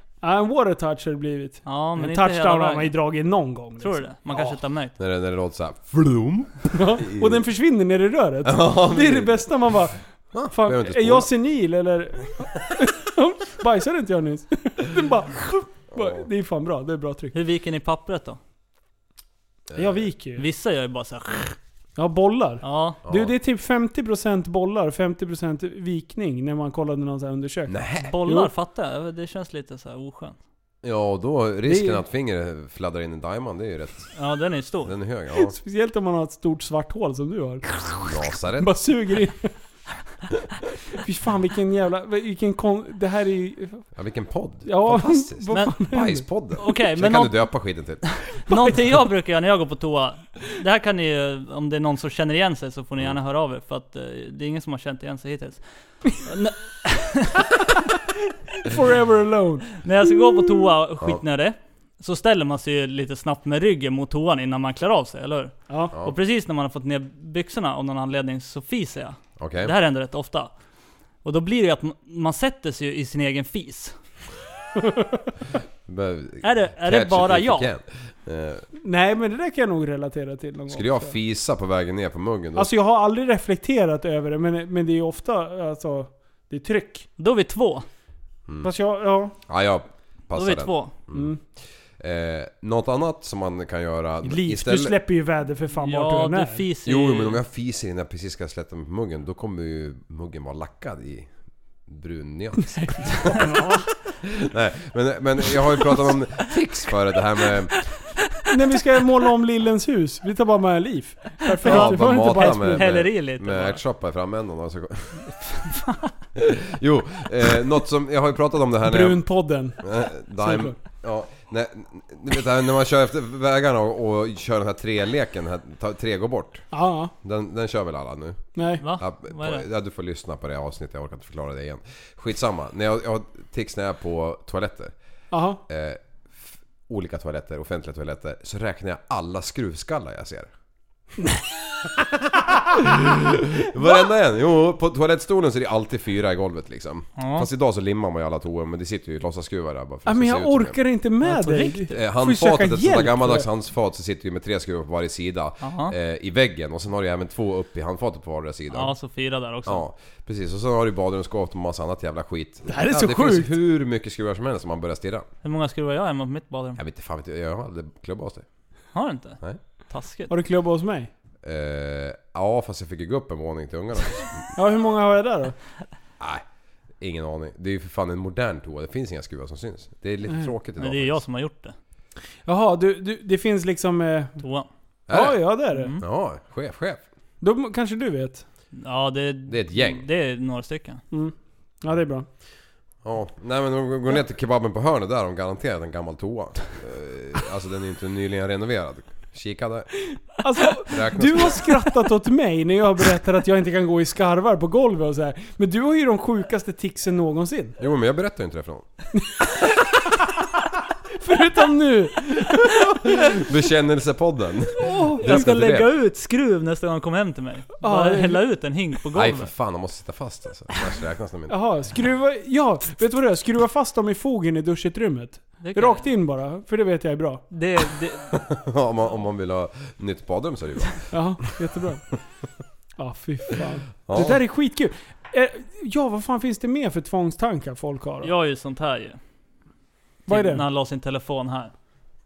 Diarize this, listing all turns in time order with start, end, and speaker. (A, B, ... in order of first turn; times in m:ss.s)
0:00.2-0:04.5 A
0:01.6-0:02.9 B
0:03.8-0:04.9 B
0:05.0-0:07.4 C
0:06.7-0:17.3 A
0:08.4-0:09.5 C
0:10.3-0:11.3 C
0:15.9-0:16.3 C
0:17.3-0:18.4 B
0:19.7-0:20.1 C
0:19.7-0:20.4 A
0:20.4-0:21.6 B
0:22.0-0:28.5 A
0:22.6-0:23.0 B
0:23.0-0:23.3 C
0:27.7-0:28.1 C
0:28.0-0:30.4 B
0:30.8-0:34.1 C
0:31.6-0:32.0 A
0:34.1-0:34.9 B
0:34.8-0:35.5 C
0:35.3-0:39.5 A
0:38.0-0:38.7 C
0:40.9-0:43.8 A
0:43.9-0:48.0 C
0:44.6-0:46.2 A
0:46.6-0:47.5 B
0:48.0-0:57.6 B
0:58.5-0:59.8 A
0:59.8-1:10.5 B
1:05.7-1:05.9 A
1:09.4-1:09.7 C
1:11.2-1:14.0 B
1:14.8-1:15.0 A
1:15.8-1:18.6 C
1:16.4-1:17.7 B
1:18.8-1:21.1 A
1:20.7-1:22.7 C
1:22.6-1:27.1 A
1:27.2-1:27.8 B
1:28.6-1:29.3 A
1:29.4-1:31.3 C
1:30.3-1:30.9 B
1:31.1-1:31.4 A
1:32.0-1:34.9 C
1:34.2-1:36.6 A
1:35.8-1:37.4 B
1:36.8-1:41.3 C
1:41.9-1:43.5 C
1:42.8-1:43.9 A
1:44.2-1:47.8 C
1:48.5-1:52.9 A
1:51.6-1:53.8 B
1:51.6-1:55.3 C
1:55.6-1:56.1 B
1:56.4-1:59.2 C
1:58.8-1:59.8 A
1:59.8-2:06.7 C
2:00.4-2:00.8 A
2:06.7-2:07.1 A
2:07.2-2:14.9 C
2:08.6-2:08.8 A
2:08.8-2:09.6 B
2:15.3-2:15.6 A
2:15.7-2:20.5 C
2:21.9-2:30.8 C
2:27.2-2:27.5 B
2:30.0-2:33.5 A
2:31.2-2:32.0 B
2:31.9-2:38.9 C
2:35.6-2:35.9 B
2:38.7-2:39.8 B
2:39.6-2:45.3 C
2:42.7-2:43.5 A
2:45.4-2:46.8 B
2:46.8-2:48.4 C
2:48.9-2:50.3 B
2:50.3-2:51.1 A
2:51.4-2:54.5 C
2:54.5-2:55.5 A
2:57.0-3:01.2 C
3:00.8-3:01.7 B
3:02.4-3:04.4 A
3:04.4-3:04.7 B
3:05.1-3:05.4 C
3:05.1-3:05.9 A
3:05.7-3:06.0 B
3:06.0-3:07.0 C
3:07.4-3:08.4 A
3:08.7-3:11.0 B
3:09.5-3:10.1 C
3:11.1-3:12.3 A
3:13.0-3:19.9 C
3:20.4-3:27.8 A
3:20.8-3:21.7 C
3:27.8-3:28.8 C
3:29.2-3:33.4 A
3:32.6-3:35.9 C
3:34.8-3:35.5 A
3:35.2-3:39.5 B
3:37.8-3:38.4 A
3:39.1-3:41.5 C
3:41.5-3:47.4 A
3:45.6-3:46.0 B
3:47.5-3:48.4 B
3:48.3-3:51.0 C
3:51.1-3:52.0 A
3:53.0-3:58.3 A
3:54.1-3:54.4 C
3:58.2-3:59.2 B
4:00.2-4:01.7 B
4:00.3-4:00.6 A